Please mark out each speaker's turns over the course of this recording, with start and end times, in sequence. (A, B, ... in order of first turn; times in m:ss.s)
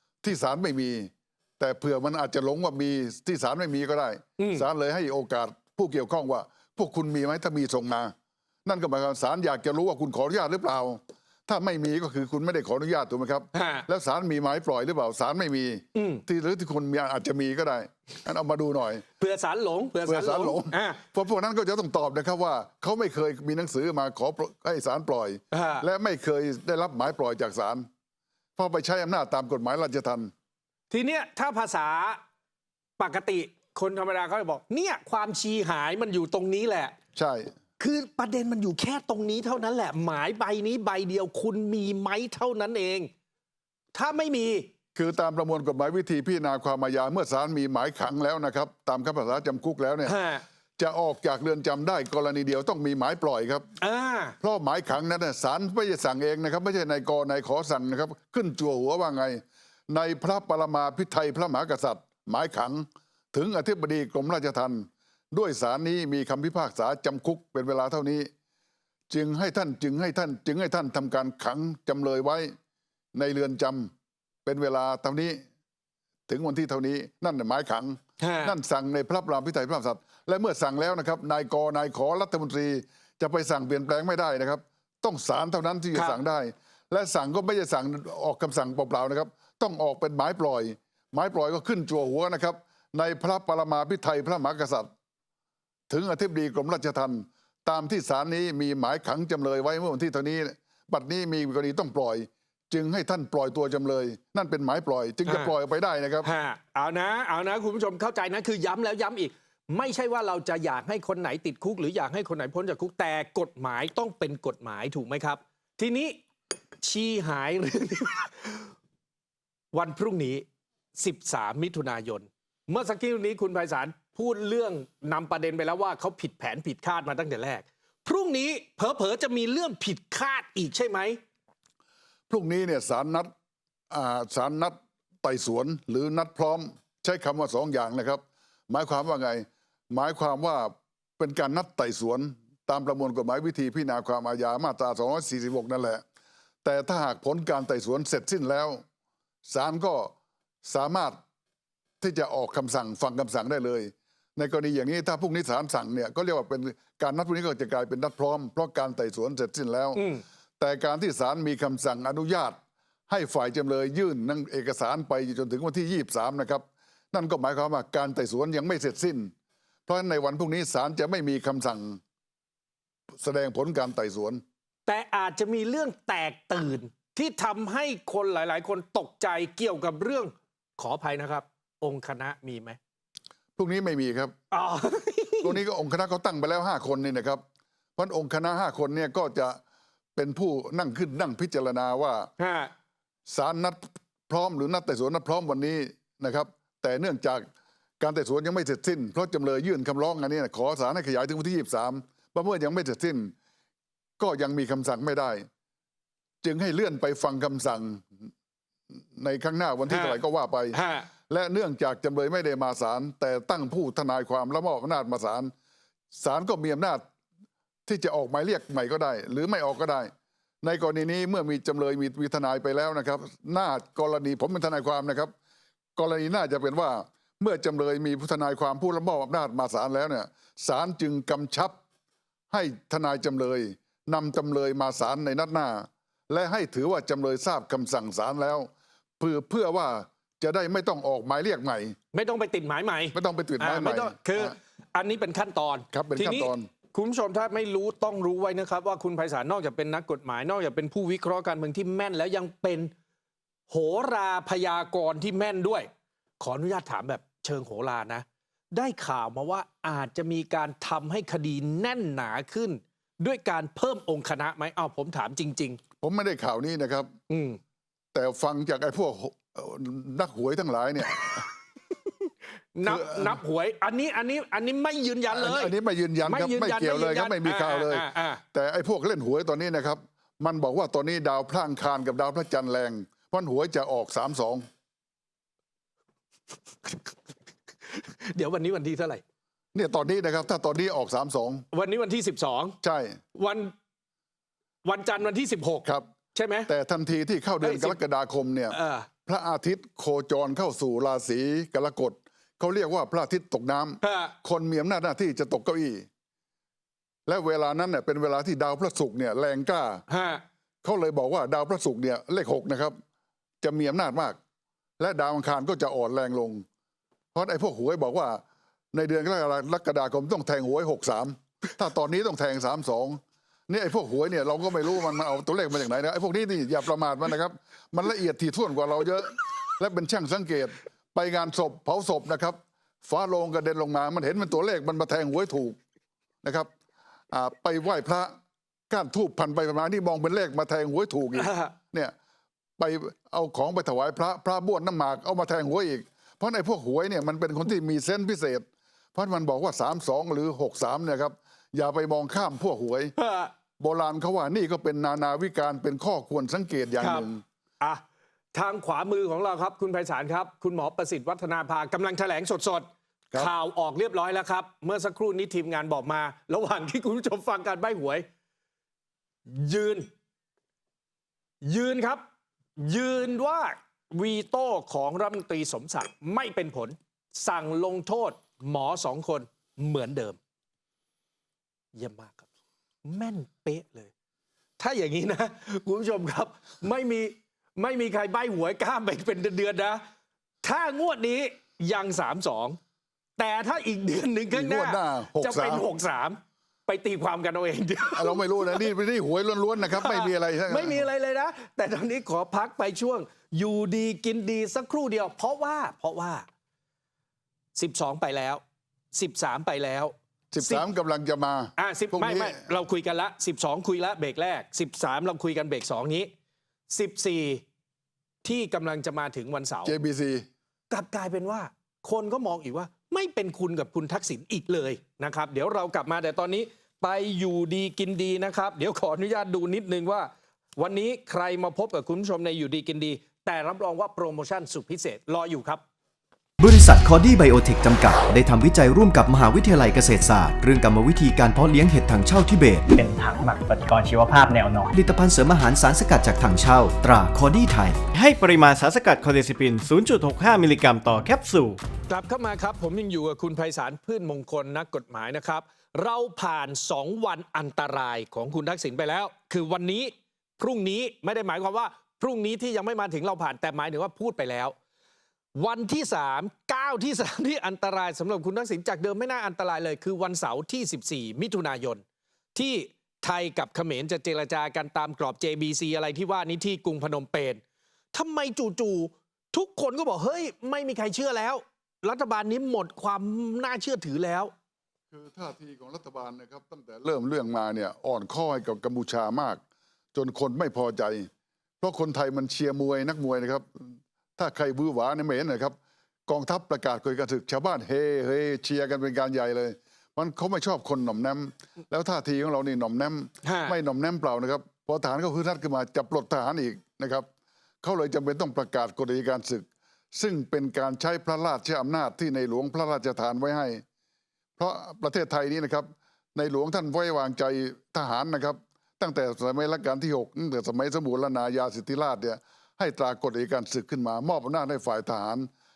0:00.2-0:08.1 A
0:04.4-0:04.7 B
0:08.6-0:19.0 A
0:13.5-0:13.9 B
0:16.0-0:16.2 B
0:19.2-0:21.0 B
0:20.0-0:27.8 A
0:25.5-0:25.9 B
0:28.6-0:30.3 A
0:30.9-0:32.2 B
0:33.0-0:36.9 B
0:37.2-0:37.5 A
0:37.8-0:43.1 B
0:43.9-0:44.7 B
0:45.0-0:50.2 A
0:50.0-0:50.4 B
0:50.8-0:53.6 A
0:53.8-0:54.4 B
0:54.4-1:08.3 A
1:09.1-1:12.5 A
1:13.2-1:13.9 A
1:14.4-1:15.4 A
1:16.3-1:34.9 A
1:18.2-1:18.6 B
1:25.9-1:26.2 B
1:35.9-1:46.3 A
1:45.3-1:45.6 B
1:46.2-1:56.2 B
1:56.8-1:58.7 B
1:59.7-2:11.2 B
2:12.3-2:13.3 A
2:13.9-2:26.0 A
2:26.6-2:28.8 A
2:29.5-2:30.1 A
2:30.6-2:31.2 A
2:32.0-2:42.6 A
2:40.0-2:40.2 B
2:43.1-2:49.3 A
2:49.9-2:52.0 A
2:53.2-2:54.4 A
2:54.9-3:02.8 B
3:03.6-3:04.3 A
3:04.5-3:05.6 B
3:05.4-3:07.4 A
3:08.0-3:09.6 A
3:10.2-3:12.3 A
3:12.4-3:12.7 B
3:13.3-3:17.5 A
3:18.0-3:23.3 A
3:24.2-3:25.5 A
3:26.4-3:28.3 A
3:28.9-3:35.5 A
3:29.9-3:30.2 B
3:30.7-3:31.1 B
3:36.1-3:37.0 A
3:37.9-3:40.1 A
3:40.6-3:45.3 A
3:46.0-3:51.8 A
3:52.5-3:58.7 A
3:59.2-4:02.0 A
4:02.1-4:12.9 B
4:03.1-4:04.6 A
4:05.9-4:06.7 A
4:13.7-4:15.9 B
4:16.4-4:25.8 B
4:26.0-4:27.1 A
4:27.3-4:27.6 B
4:28.1-4:31.5 A
4:32.8-4:35.7 B
4:32.8-4:33.4 A
4:35.3-4:44.6 A
4:36.2-4:38.4 B
4:46.8-4:47.1 B
4:47.9-4:49.2 B
4:49.7-4:51.6 A
4:51.7-4:52.8 B
4:52.8-4:53.2 A
4:53.4-4:53.7 B
4:54.8-4:56.7 B
4:56.7-5:06.0 A
4:57.6-4:58.0 B
4:58.7-4:59.1 B
5:04.0-5:04.3 B
5:07.3-5:10.0 A
5:10.1-5:10.4 B
5:10.8-5:13.0 A
5:13.6-5:14.4 A
5:15.0-5:16.6 A
5:17.4-5:18.4 A
5:18.9-5:35.8 A
5:36.4-5:36.7 A
5:37.3-5:38.3 A
5:38.9-5:42.1 A
5:41.4-5:41.7 B
5:42.8-5:53.1 A
5:53.2-5:53.5 B
5:53.8-5:57.4 A
5:57.0-5:57.3 B
5:58.5-6:08.3 B
6:09.5-6:10.1 B
6:11.6-6:12.2 B
6:12.8-6:20.4 B
6:22.0-6:22.5 B
6:23.0-6:24.1 B
6:24.8-6:30.0 B
6:30.6-6:32.8 B
6:33.4-6:38.9 B
6:34.5-6:35.9 A
6:38.1-6:41.1 A
6:39.8-6:46.5 B
6:47.8-6:48.6 B
6:49.1-6:50.9 B
6:50.5-6:52.6 A
6:51.8-6:56.3 B
6:56.9-6:57.6 B
6:58.4-7:00.0 B
6:59.8-7:00.5 A
7:00.9-7:15.8 B
7:16.6-7:22.9 C
7:23.0-7:24.9 D
7:24.9-7:28.1 C
7:28.1-7:31.8 E
7:32.1-7:44.8 B
7:45.6-7:52.0 B
7:52.6-7:57.6 B
7:58.1-8:04.5 B
8:05.1-8:09.6 A
8:10.1-8:11.3 A
8:11.8-8:15.8 A
8:16.3-8:27.3 A
8:23.4-8:23.8 B
8:27.8-8:33.8 A
8:34.6-8:45.5 A